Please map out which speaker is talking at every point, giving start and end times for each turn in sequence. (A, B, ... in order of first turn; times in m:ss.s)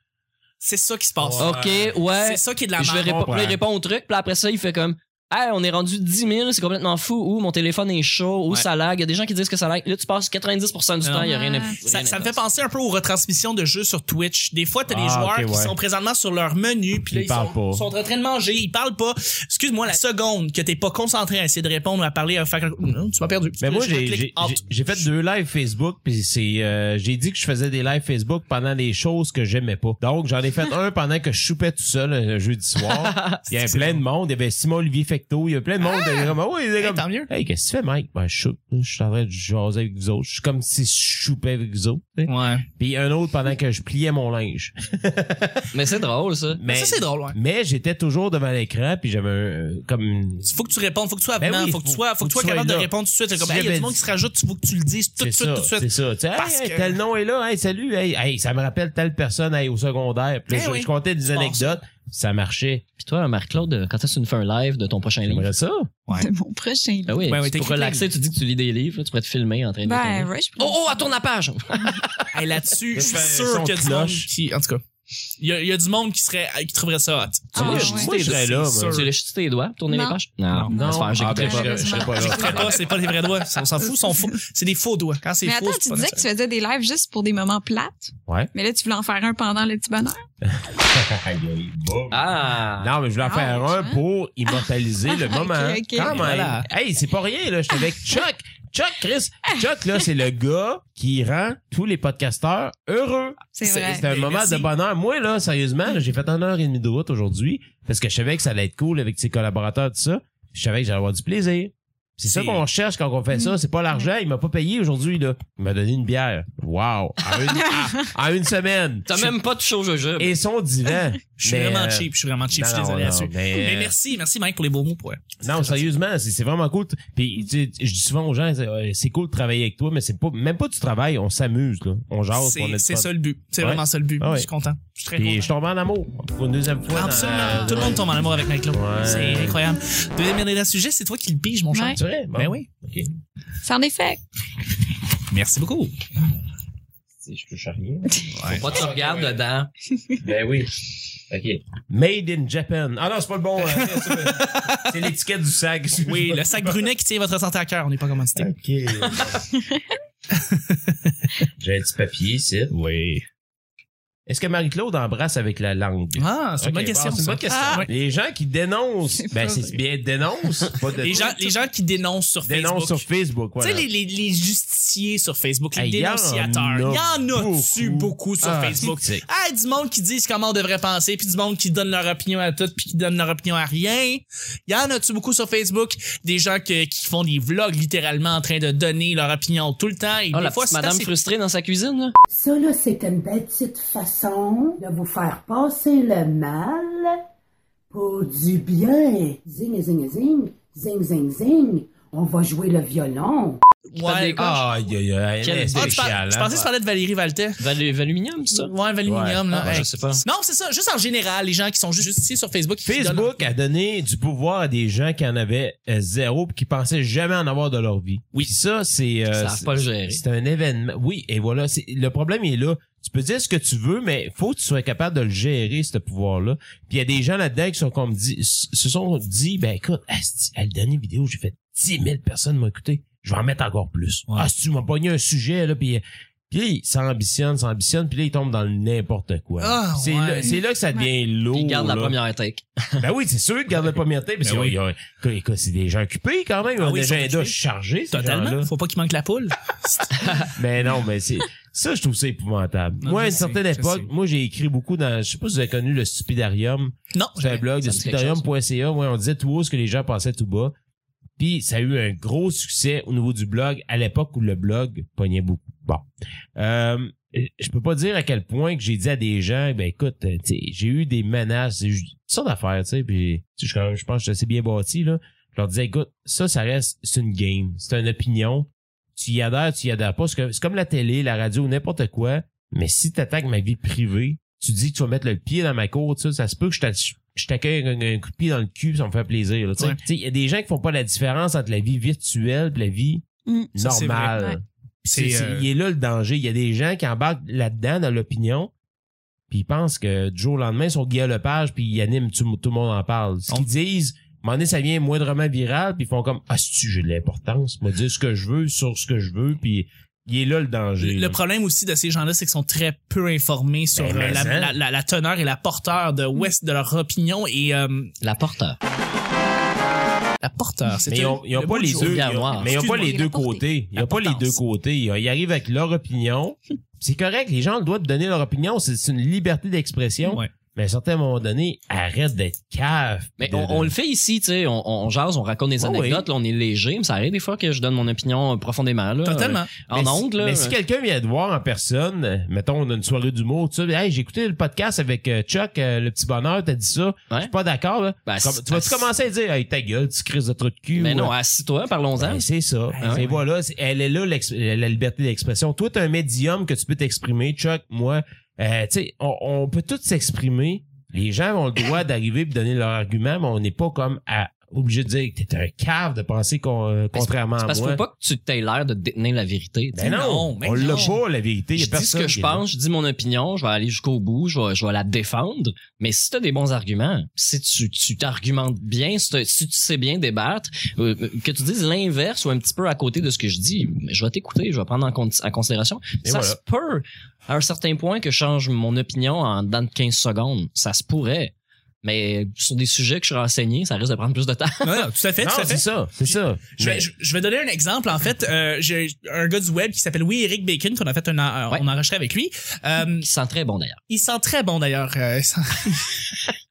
0:00.6-0:03.3 A
0:01.2-0:02.0 B
0:01.4-0:12.4 C
0:03.0-0:03.6 B
0:11.0-0:25.0 A
0:11.2-0:11.8 D
0:14.9-0:15.7 B
0:17.1-0:17.8 B
0:23.6-0:45.7 B
0:32.8-0:33.4 C
0:33.6-0:34.0 A
0:36.0-0:36.2 D
0:36.8-0:37.3 A
0:42.2-0:42.7 A
0:45.7-0:46.6 C
0:46.6-0:50.5 B
0:46.7-0:47.4 A
0:50.4-0:57.0 A
0:51.4-0:54.0 B
0:55.2-1:02.8 B
1:00.5-1:01.7 A
1:03.0-1:05.5 C
1:05.2-1:05.9 B
1:06.1-1:07.3 D
1:07.0-1:12.4 C
1:07.3-1:08.1 A
1:09.8-1:11.1 D
1:12.3-1:14.8 A
1:12.9-1:14.3 B
1:15.4-1:19.1 A
1:17.5-1:18.3 D
1:17.5-1:19.1 B
1:18.9-1:22.1 C
1:19.9-1:20.2 D
1:20.7-1:22.8 D
1:20.7-1:23.0 B
1:22.1-1:26.2 A
1:25.4-1:30.2 D
1:30.4-1:59.3 B
1:32.1-1:32.9 C
1:33.2-1:36.2 D
1:36.0-1:36.7 A
1:37.7-1:38.0 D
1:43.6-1:44.1 D
1:43.6-1:44.7 A
1:52.3-1:52.6 A
1:59.1-2:00.4 C
2:00.2-2:03.9 B
2:01.4-2:05.9 A
2:05.4-2:14.5 B
2:12.3-2:15.5 A
2:15.1-2:18.1 B
2:16.9-2:22.7 A
2:18.7-2:19.6 B
2:21.7-2:22.0 D
2:21.9-2:23.1 B
2:23.6-2:24.2 D
2:25.3-2:25.9 A
2:27.2-2:29.4 B
2:28.3-2:28.6 A
2:28.5-2:29.7 C
2:30.2-2:36.9 B
2:33.6-2:35.0 A
2:36.0-2:38.5 A
2:38.4-2:39.4 B
2:40.3-2:41.1 A
2:41.6-2:42.7 B
2:42.7-2:43.2 A
2:44.3-2:51.4 B
2:46.2-2:47.9 A
2:47.5-2:47.8 D
2:49.2-2:49.8 D
2:51.0-2:53.0 A
2:52.4-2:53.8 B
2:53.6-3:11.1 A
2:55.7-2:59.2 B
3:10.3-3:12.1 C
3:12.3-3:17.2 E
3:17.9-3:23.6 E
3:23.9-3:24.6 A
3:24.0-3:24.6 C
3:24.4-3:26.5 B
3:25.4-3:26.7 C
3:25.7-3:27.6 A
3:27.6-3:28.7 C
3:28.5-3:33.5 A
3:29.0-3:29.9 B
3:29.5-3:30.2 C
3:32.8-4:02.2 B
3:39.3-3:40.2 C
3:59.6-4:00.5 A
4:00.5-4:01.1 D
4:01.5-4:03.0 C
4:03.0-4:08.7 B
4:04.4-4:04.8 A
4:06.8-4:07.6 A
4:08.1-4:10.5 A
4:10.6-4:20.7 B
4:13.0-4:14.1 A
4:17.1-4:17.6 A
4:17.8-4:18.5 C
4:21.4-4:58.7 B
4:53.5-4:53.8 D
4:53.8-4:54.3 A
4:55.0-4:55.7 A
4:59.5-5:11.4 B
5:11.0-5:18.1 A
5:14.0-5:14.7 B
5:18.2-5:18.8 C
5:20.4-5:23.2 A
5:21.0-5:33.9 B
5:21.9-5:22.8 C
5:22.7-5:23.6 D
5:24.0-5:24.5 C
5:33.4-5:40.8 C
5:35.8-5:36.2 B
5:39.2-5:39.7 A
5:39.9-5:51.3 B
5:48.2-5:49.1 C
5:50.9-5:52.5 C
5:52.2-6:08.0 B
5:52.9-5:53.4 A
5:53.0-5:53.3 C
6:07.1-6:10.2 C
6:09.9-6:12.6 B
6:10.0-6:11.2 A
6:10.8-6:11.1 C
6:11.7-6:31.5 C
6:26.2-6:26.6 B
6:32.0-6:35.1 C
6:34.8-6:43.2 A
6:35.4-6:37.1 B
6:43.2-6:44.0 C
6:44.1-6:46.3 A